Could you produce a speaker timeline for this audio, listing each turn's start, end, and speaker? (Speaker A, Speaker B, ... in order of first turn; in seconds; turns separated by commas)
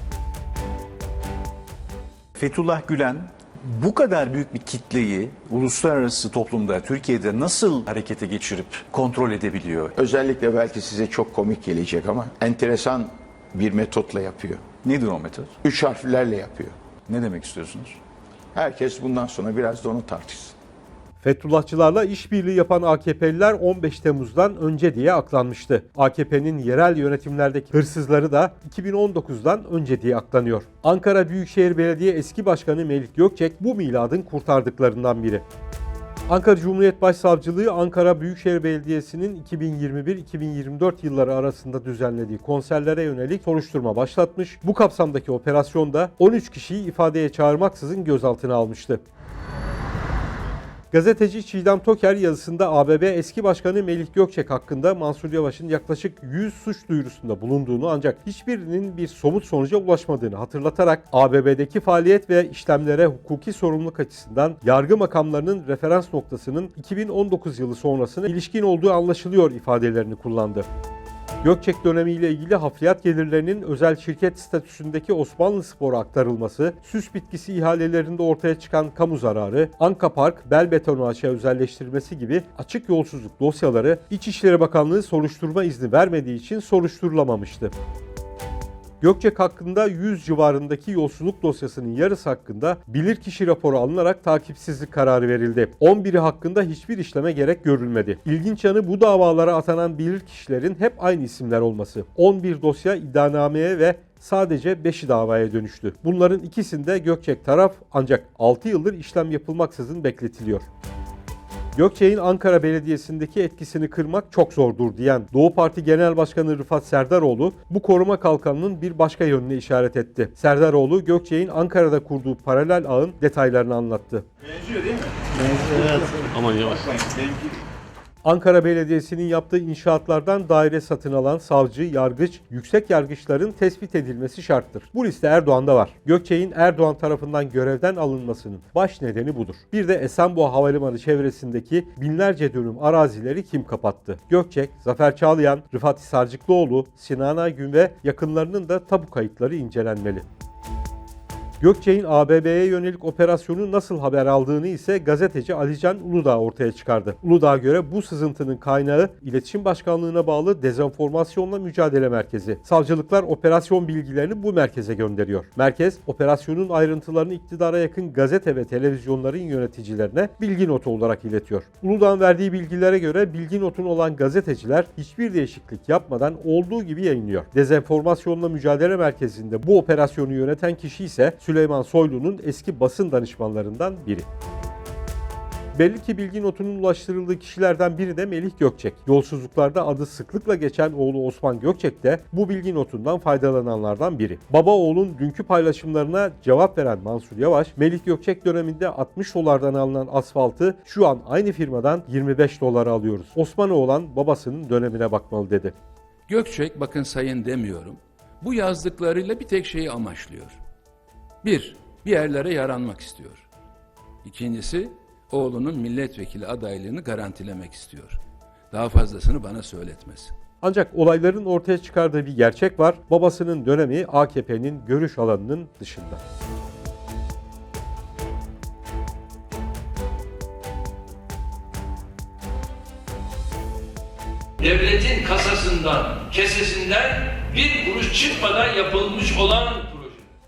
Speaker A: 2.4-9.9, Speaker B: 9.9-14.7, Speaker A: 14.8-15.5, Speaker B: 15.6-16.8, Speaker A: 17.1-18.0, Speaker B: 18.5-20.6, Speaker C: 21.2-35.4, Speaker C: 36.3-49.0, Speaker C: 50.9-70.7, Speaker C: 71.4-87.7, Speaker C: 89.0-110.7, Speaker C: 111.8-124.2, Speaker C: 128.2-150.2, Speaker C: 151.6-184.3, Speaker C: 185.8-205.7, Speaker D: 206.3-210.6, Speaker D: 211.4-213.4, Speaker D: 214.2-218.2, Speaker D: 218.7-220.3, Speaker C: 220.6-226.2, Speaker E: 234.6-240.2